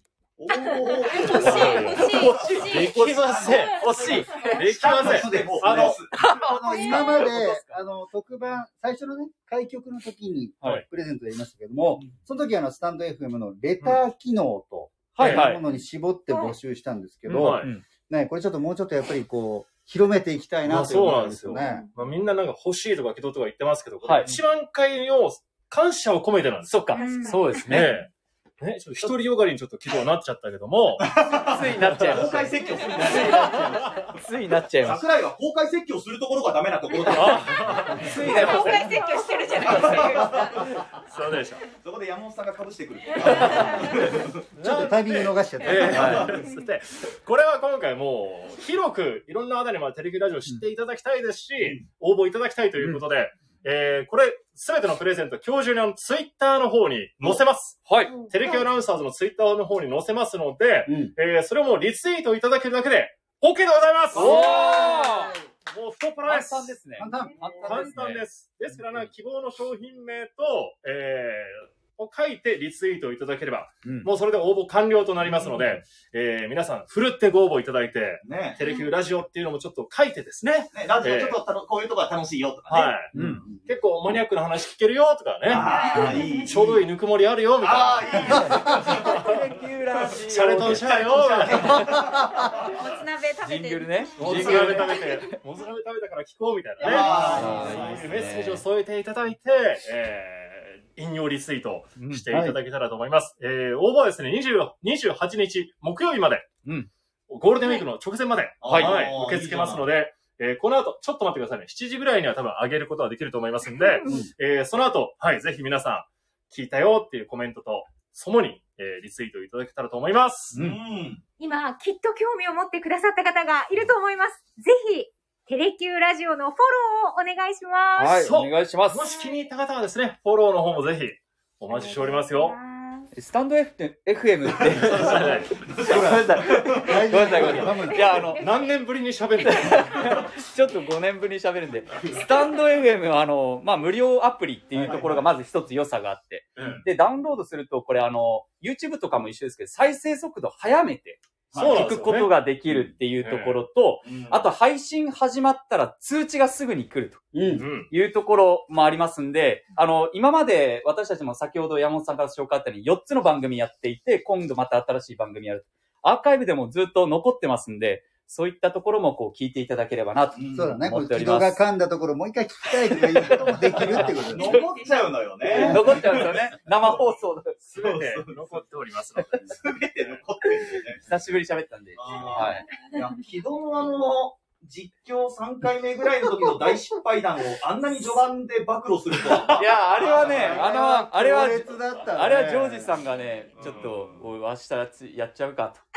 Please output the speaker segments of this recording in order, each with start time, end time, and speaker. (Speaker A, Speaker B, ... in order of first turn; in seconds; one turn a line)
Speaker A: 0.4-6.1
Speaker B: 0.5-2.9
Speaker C: 1.2-6.1
Speaker D: 1.4-2.9
Speaker D: 3.7-4.8
Speaker E: 5.0-21.9
Speaker D: 6.1-7.8
Speaker D: 15.2-15.6
Speaker C: 15.2-15.5
Speaker C: 17.3-17.7
Speaker D: 17.6-17.8
Speaker C: 20.6-31.2
Speaker B: 21.6-21.9
Speaker D: 24.0-24.3
Speaker D: 26.7-28.0
Speaker B: 26.9-27.8
Speaker F: 27.0-27.4
Speaker A: 31.0-34.2
Speaker D: 31.4-35.0
Speaker C: 31.8-32.3
Speaker C: 33.1-34.0
Speaker A: 34.8-38.0
Speaker C: 37.1-39.0
Speaker D: 37.9-38.9
Speaker B: 38.3-40.7
Speaker A: 39.5-41.0
Speaker D: 39.7-40.0
Speaker C: 41.0-41.6
Speaker A: 41.8-44.4
Speaker B: 43.1-44.0
Speaker C: 43.3-43.7
Speaker C: 44.5-66.8
Speaker E: 44.6-46.2
Speaker A: 45.7-46.4
Speaker D: 45.9-46.3
Speaker D: 57.9-58.1
Speaker F: 58.3-58.6
Speaker E: 60.9-61.1
Speaker D: 64.1-65.3
Speaker E: 64.2-65.1
Speaker D: 66.3-68.2
Speaker E: 67.0-68.0
Speaker C: 67.6-81.4
Speaker D: 73.8-74.1
Speaker A: 78.2-78.6
Speaker A: 80.7-83.0
Speaker C: 82.7-89.3
Speaker D: 83.1-83.4
Speaker E: 83.1-83.8
Speaker A: 85.5-86.8
Speaker B: 85.6-86.5
Speaker A: 87.6-89.2
Speaker D: 88.8-91.8
Speaker C: 90.3-91.9
Speaker A: 90.8-92.8
Speaker B: 92.6-95.3
Speaker D: 93.4-95.0
Speaker C: 94.2-106.5
Speaker A: 96.8-98.3
Speaker D: 96.8-98.6
Speaker E: 97.2-97.4
Speaker D: 102.0-102.2
Speaker E: 102.3-102.6
Speaker D: 106.6-106.9
Speaker C: 107.3-120.6
Speaker A: 108.6-109.9
Speaker D: 108.7-109.0
Speaker B: 113.8-114.2
Speaker D: 120.5-120.8
Speaker A: 120.5-121.2
Speaker F: 121.4-128.3
Speaker D: 128.0-129.1
Speaker C: 128.2-132.6
Speaker B: 131.7-133.1
Speaker D: 133.1-138.5
Speaker A: 134.7-137.7
Speaker C: 134.8-135.5
Speaker E: 135.8-138.2
Speaker F: 137.9-138.5
Speaker C: 138.4-140.2
Speaker D: 139.4-171.6
Speaker A: 144.8-145.3
Speaker C: 146.6-146.8
Speaker A: 146.6-146.8
Speaker A: 151.5-151.8
Speaker C: 151.6-152.3
Speaker C: 153.2-153.6
Speaker A: 154.0-154.5
Speaker E: 157.3-157.7
Speaker C: 157.6-157.9
Speaker A: 170.3-170.8
Speaker E: 170.5-174.7
Speaker A: 172.9-177.0
Speaker D: 173.7-174.6
Speaker B: 174.4-175.2
Speaker E: 175.4-176.2
Speaker D: 175.5-177.6
Speaker C: 177.7-180.2
Speaker A: 177.8-178.6
Speaker A: 179.5-181.1
Speaker D: 181.0-182.7
Speaker A: 182.0-190.7
Speaker D: 189.4-195.8
Speaker E: 190.2-193.0
Speaker A: 193.6-194.2
Speaker C: 193.6-194.1